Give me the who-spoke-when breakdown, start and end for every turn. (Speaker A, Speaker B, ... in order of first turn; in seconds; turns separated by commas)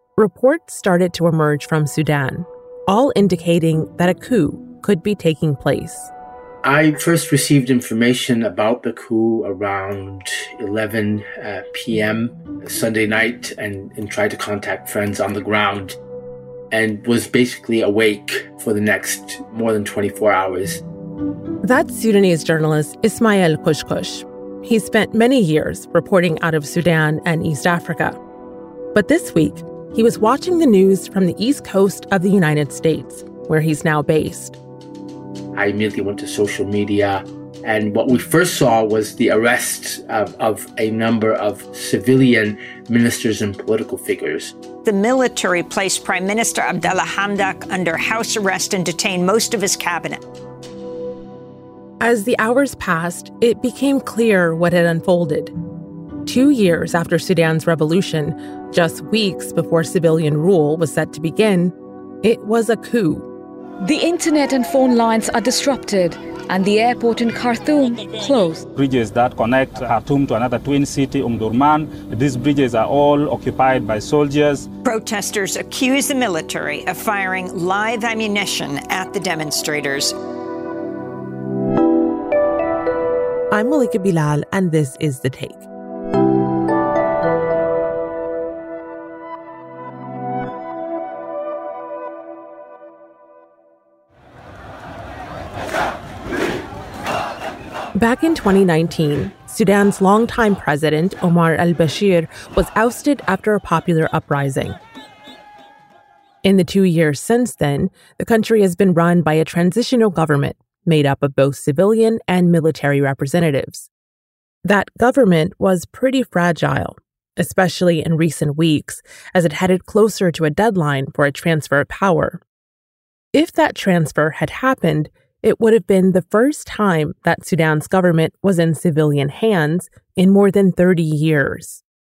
Speaker A: 0.2-6.1, Speaker B: 6.6-16.0, Speaker B: 16.7-20.8, Speaker A: 21.6-28.2, Speaker A: 28.9-34.6, Speaker B: 35.5-44.5, Speaker C: 44.8-50.2, Speaker A: 52.0-55.5, Speaker A: 56.2-63.3, Speaker D: 63.8-68.7, Speaker E: 68.8-74.7, Speaker C: 74.8-80.2, Speaker A: 83.5-85.7, Speaker A: 98.0-104.8, Speaker A: 106.4-113.9, Speaker A: 114.6-122.4, Speaker A: 123.3-131.8